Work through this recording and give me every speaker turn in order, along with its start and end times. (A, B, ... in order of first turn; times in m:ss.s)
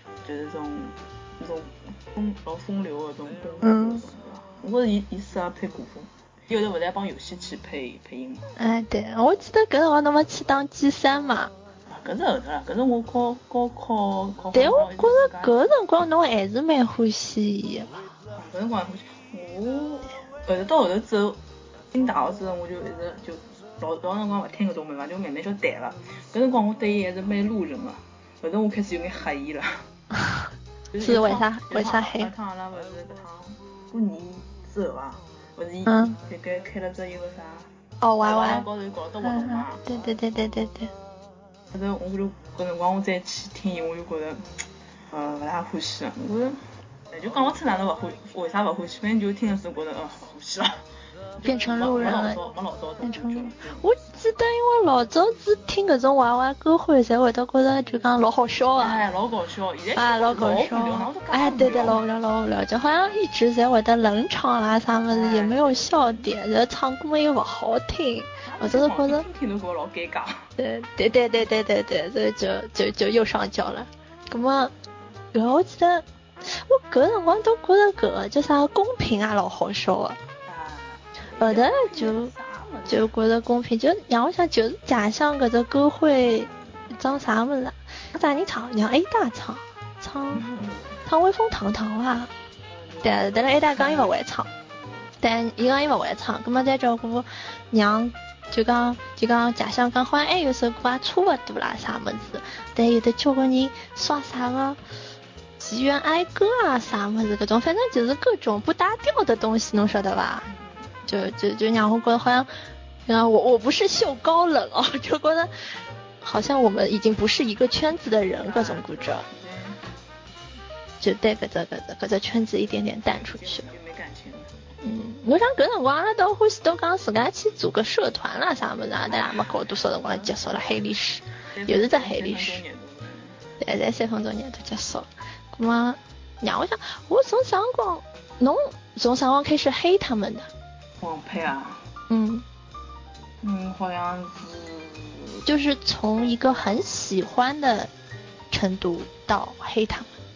0:00.2-0:08.5 A
0:03.6-0:04.0 B
0:08.6-0:11.5 B
0:11.9-0:15.6 A
0:14.5-0:18.1 B
0:18.3-0:29.9 A
0:30.9-0:37.7 A
0:31.0-0:32.3 B
0:35.9-0:36.2 B
0:38.0-0:38.7 B
0:38.2-0:40.0 A
0:39.2-0:40.9 B
0:41.7-0:50.8 A
0:51.4-0:53.9 A
0:51.4-0:52.4 B
0:53.0-0:59.0 B
0:58.8-1:02.0 A
1:00.0-1:09.2 B
1:05.1-1:06.3 A
1:08.4-1:10.5 A
1:10.6-1:14.7 B
1:15.3-1:20.2 B
1:20.5-1:23.1 A
1:21.4-1:22.3 B
1:22.9-1:30.5 B
1:26.2-1:26.6 A
1:30.4-1:31.0 A
1:31.0-1:32.3 B
1:32.7-1:35.1 A
1:33.0-1:34.5 B
1:35.2-1:44.8 B
1:45.6-1:50.5 B
1:50.5-1:51.1 A
1:51.1-1:52.5 B
1:53.1-1:59.3 B
1:58.4-1:59.8 A
2:01.0-2:03.7 B
2:03.0-2:04.6 A
2:04.8-2:12.6 B
2:09.0-2:10.9 A
2:11.5-2:13.4 A
2:13.6-2:20.5 B
2:21.0-2:21.8 A
2:22.1-2:22.4 B
2:23.4-2:25.5 A
2:25.5-2:27.9 B
2:26.2-2:26.9 A
2:28.5-2:30.1 B